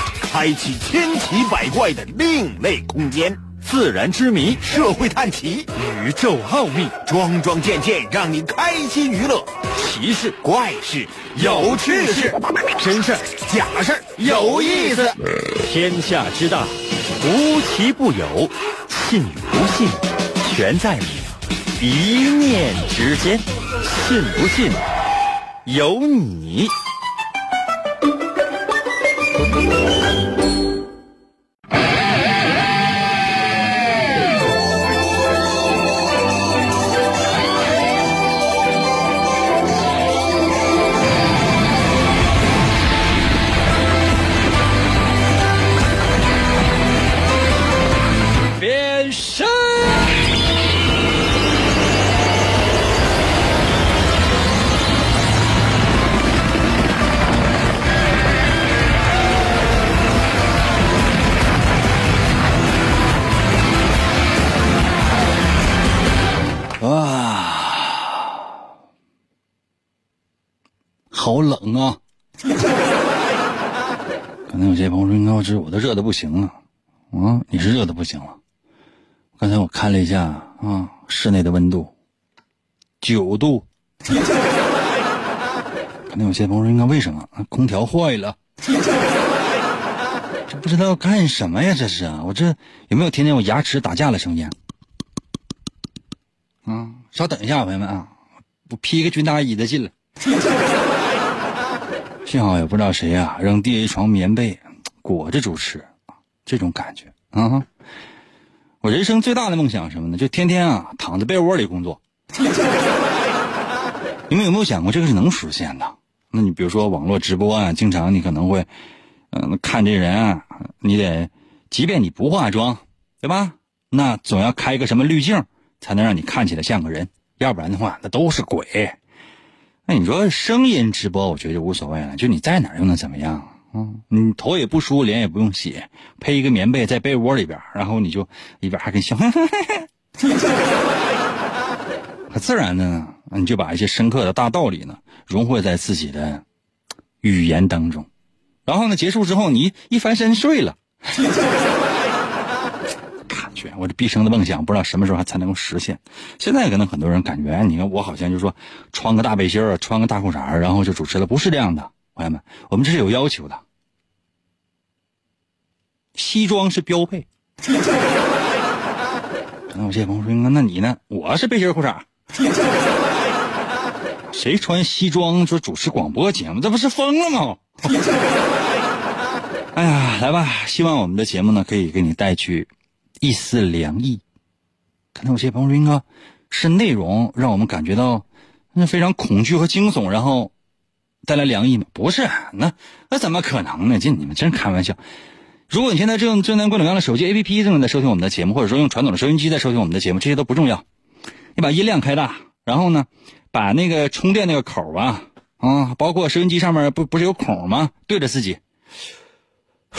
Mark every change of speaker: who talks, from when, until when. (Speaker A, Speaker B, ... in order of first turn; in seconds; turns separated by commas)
Speaker A: 0.3-3.4, Speaker B: 3.7-4.4, Speaker A: 4.6-5.8, Speaker B: 6.2-6.8, Speaker A: 7.0-9.5, Speaker B: 9.9-10.2, Speaker A: 10.3-15.1, Speaker C: 14.2-15.0, Speaker B: 14.4-14.7, Speaker C: 15.7-21.2, Speaker C: 21.8-24.8, Speaker C: 25.7-26.7, Speaker C: 48.6-50.1, Speaker C: 66.8-68.3, Speaker C: 71.1-72.0, Speaker C: 74.5-76.5, Speaker C: 77.1-78.4, Speaker C: 79.4-81.9, Speaker C: 83.0-83.7, Speaker C: 86.1-88.3, Speaker C: 90.5-94.5, Speaker C: 96.7-98.1, Speaker C: 98.7-99.9, Speaker C: 102.2-105.9, Speaker C: 106.5-107.7, Speaker C: 108.8-112.0, Speaker C: 114.3-118.7, Speaker C: 119.3-129.0, Speaker C: 129.9-139.9, Speaker C: 142.3-146.4, Speaker C: 147.2-148.1, Speaker C: 148.7-150.8, Speaker C: 153.3-163.6, Speaker C: 166.1-167.2, Speaker C: 169.7-172.1, Speaker C: 174.3-177.6, Speaker C: 179.7-182.7, Speaker C: 183.2-184.2, Speaker C: 185.1-190.5, Speaker C: 191.2-195.0, Speaker C: 195.7-200.8, Speaker C: 201.6-208.6